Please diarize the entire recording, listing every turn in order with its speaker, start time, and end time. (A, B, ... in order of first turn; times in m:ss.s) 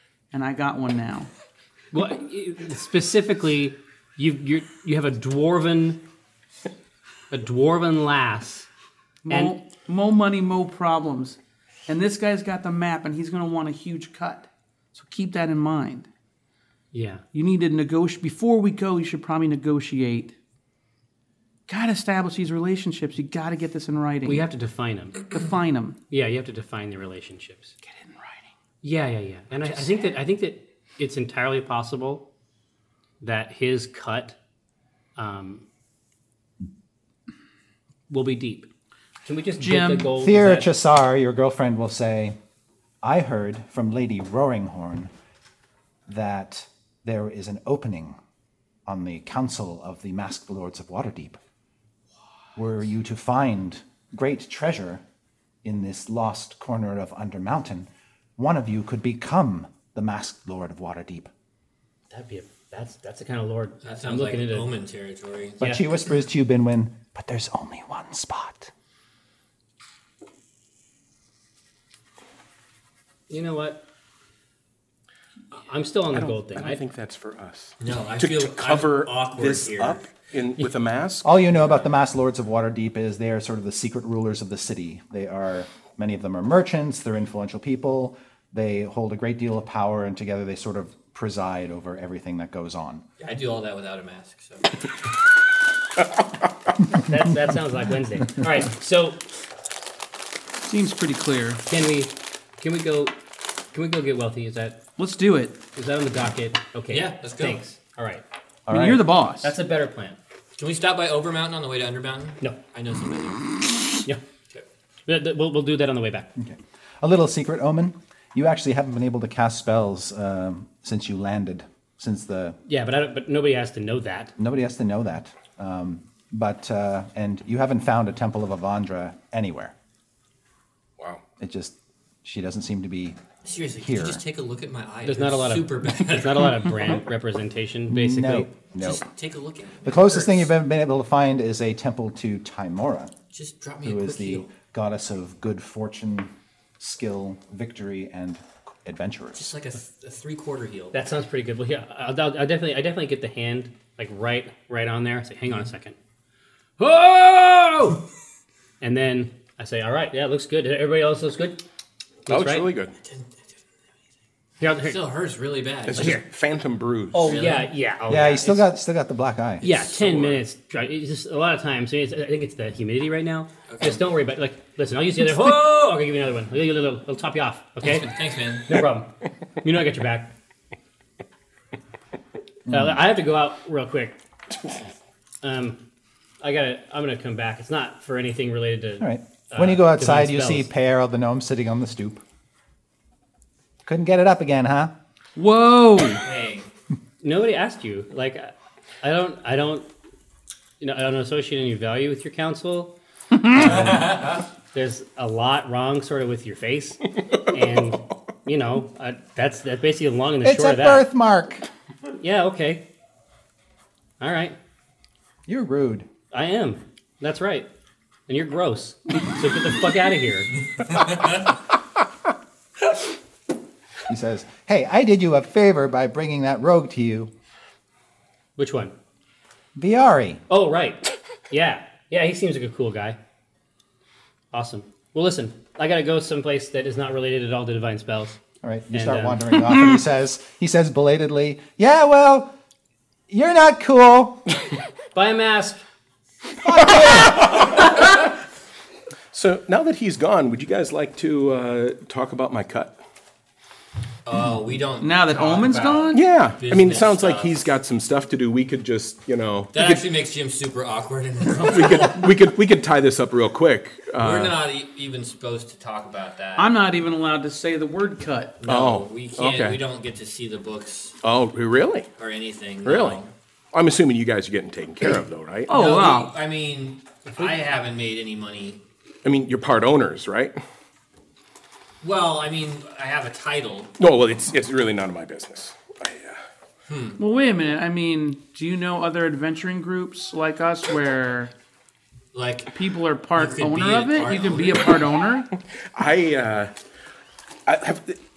0:00.3-0:01.3 A
0:01.9-0:06.0 B
0:07.3-0:08.7 B
0:09.2-0:16.1 A
0:09.3-0:09.5 B
0:16.9-0:17.2 B
0:17.3-0:20.4 A
0:21.7-0:24.5 A
0:24.2-0:25.3 B
0:25.3-0:26.0 A
0:26.1-0:27.8 B
0:27.8-0:28.5 A
0:28.8-0:32.2 B
0:29.6-0:30.0 A
0:33.2-0:34.4 B
0:35.2-0:35.6 B
0:38.1-0:38.7 B
0:39.2-0:40.7 B
0:39.6-0:40.1 A
0:40.2-0:42.4 C
0:43.0-0:45.1 C
0:46.1-0:48.2 C
0:48.8-0:51.4 C
0:52.6-0:55.0 C
0:55.6-1:01.3 C
1:02.1-1:04.7 B
1:03.8-1:05.6 D
1:05.6-1:08.7 C
1:13.3-1:13.8 B
1:15.5-1:16.8 B
1:16.1-1:21.4 E
1:17.8-1:20.1 D
1:21.2-1:33.0 C
1:33.2-1:34.8 D
1:37.0-1:39.2 B
1:40.7-1:41.6 A
1:41.7-1:43.1 B
1:43.7-1:44.8 B
1:45.0-1:45.6 A
1:45.8-1:48.2 B
1:46.9-1:47.6 D
1:48.7-1:49.0 C
1:48.7-1:49.5 A
1:49.4-1:50.2 B
1:50.6-1:53.5 D
1:55.1-1:56.3 B
1:56.4-2:02.6 C
2:02.7-2:04.3 B
2:04.4-2:09.7 C
2:11.0-2:11.2 E
2:11.4-2:13.2 C
2:13.4-2:17.0 D
2:13.8-2:14.2 C
2:15.0-2:18.5 B
2:17.9-2:19.0 C
2:18.7-2:20.5 D
2:19.8-2:23.1 C
2:23.3-2:24.5 D
2:23.8-2:29.5 C
2:29.4-2:31.0 D
2:30.9-2:35.9 B
2:36.8-2:38.0 B
2:38.8-2:41.6 B
2:42.2-2:42.7 B
2:42.3-2:43.0 E
2:43.0-2:43.5 D
2:44.6-2:45.0 B
2:44.8-2:46.1 D
2:45.9-2:47.4 E
2:46.0-2:46.2 B
2:47.1-2:48.7 B
2:47.2-2:47.7 D
2:48.1-2:49.6 C
2:49.6-2:50.4 D
2:49.6-2:58.1 B
2:53.7-2:54.1 D
2:57.8-2:58.7 D
2:58.6-2:59.1 B
2:59.6-3:00.3 B
3:02.6-3:03.0 C
3:02.7-3:04.1 B
3:05.4-3:05.8 B
3:06.4-3:10.7 B
3:09.0-3:12.2 C
3:13.8-3:14.9 C
3:15.4-3:16.2 A
3:16.2-3:16.7 D
3:17.2-3:19.9 B
3:20.8-3:22.9 B
3:23.5-3:31.0 B
3:23.7-3:24.4 D
3:30.4-3:31.7 C
3:32.2-3:32.8 B
3:34.2-3:34.6 B
3:35.5-3:36.1 C
3:36.3-3:37.7 B
3:38.3-3:40.5 B
3:44.1-3:47.3 C
3:48.6-3:48.9 B
3:49.7-3:50.4 C
3:50.5-3:53.2 B
3:54.5-3:58.4 B
3:58.6-4:02.5 C
3:58.9-3:59.4 B
4:03.3-4:04.5 C
4:05.1-4:05.8 B
4:06.6-4:07.3 C
4:07.1-4:08.0 E
4:09.3-4:13.0 E
4:14.2-4:17.7 D
4:15.0-4:16.2 A
4:16.1-4:20.0 E
4:19.7-4:22.3 D
4:21.6-4:24.6 E
4:24.2-4:26.7 D
4:26.6-4:28.6 A
4:28.6-4:31.2 D
4:28.6-4:29.8 E
4:31.2-4:32.1 E
4:32.2-4:33.3 D
4:32.8-4:33.2 E
4:33.7-4:35.7 E
4:35.7-4:36.3 A
4:35.7-4:38.8 D
4:39.2-4:40.6 E
4:42.0-4:43.9 D
4:44.0-4:46.4 E
4:46.9-4:47.2 D
4:47.2-4:51.5 A
4:52.3-4:52.7 D
4:52.7-4:55.5 A
4:53.3-4:55.1 D
4:55.9-4:56.7 E
4:57.6-4:58.2 E